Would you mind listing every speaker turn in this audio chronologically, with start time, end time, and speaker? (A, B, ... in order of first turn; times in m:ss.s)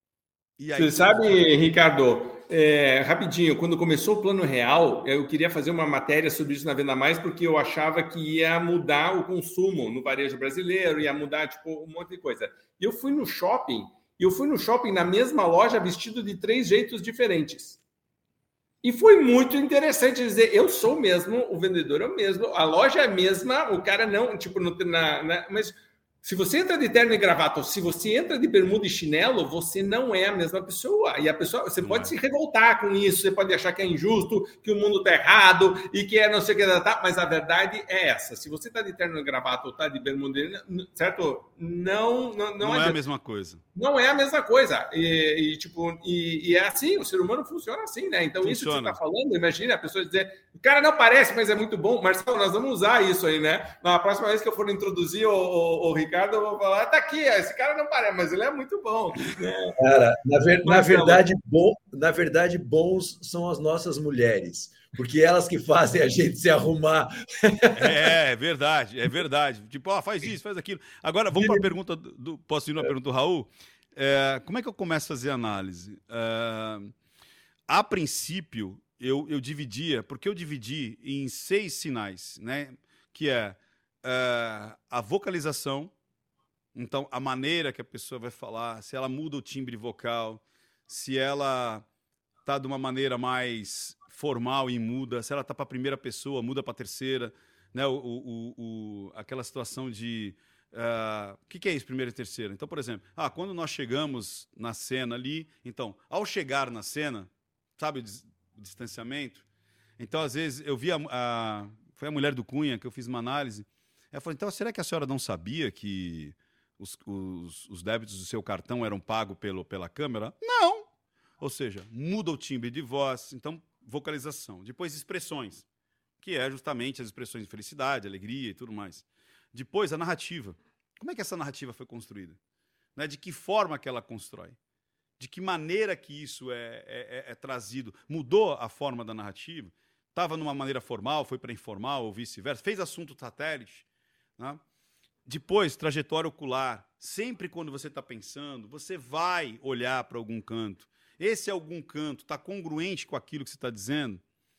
0:00.6-0:01.4 A
0:00.8-0:17.8 B
0:18.8-0:43.0 B
0:31.8-0:32.1 A
0:42.6-0:43.6 A
0:43.7-0:59.8 B
0:48.4-0:49.0 A
0:59.8-1:08.0 C
1:00.6-1:01.2 B
1:07.7-1:16.9 A
1:11.4-1:11.6 C
1:17.7-1:25.9 A
1:26.7-1:31.8 A
1:32.4-1:49.4 A
1:50.0-2:00.9 A
2:01.4-2:05.6 A
2:06.2-2:12.4 A
2:13.0-2:14.6 A
2:15.2-2:23.8 A
2:25.2-2:34.2 A